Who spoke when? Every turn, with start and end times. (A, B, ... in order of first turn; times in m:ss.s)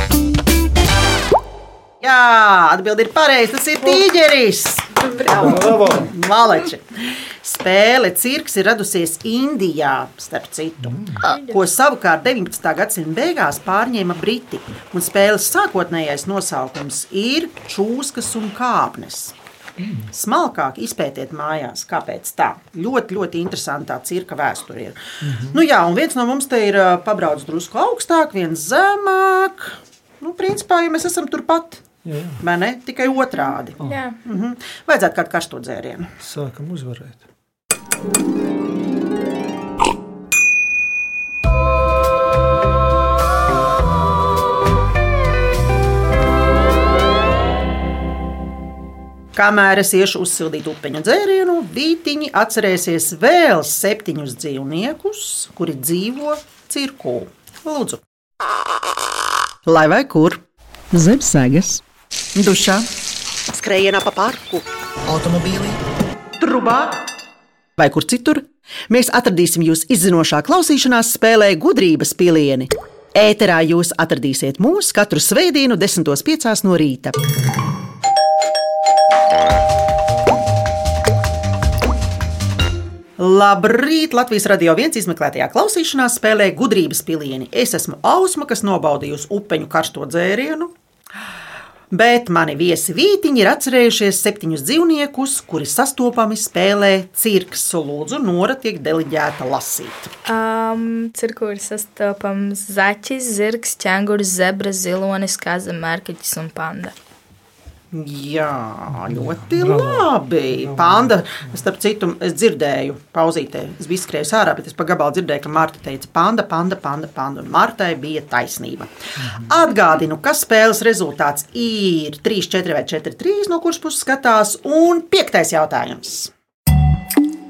0:02.0-0:19.4 A
0:05.3-0:06.1 B
0:10.8-0:11.2 B
0:11.2-0:11.6 C
0:19.8-0:20.1 B
0:20.1-0:25.0 A
0:25.2-0:25.6 B
0:25.5-0:31.8 A
0:32.0-0:32.4 B
0:32.4-0:36.1 A
0:33.8-0:34.2 C
0:36.2-0:37.2 B
0:49.4-0:58.0 A
0:59.7-1:00.4 A
1:00.9-1:01.8 A
1:02.4-1:02.9 A
1:03.5-1:05.8 A
1:06.4-1:07.0 A
1:07.8-1:17.2 A
1:23.2-1:30.7 A
1:31.9-1:40.1 A
1:40.3-1:47.0 C
1:47.9-2:06.3 A
1:49.0-1:51.4 B
1:59.2-1:59.5 B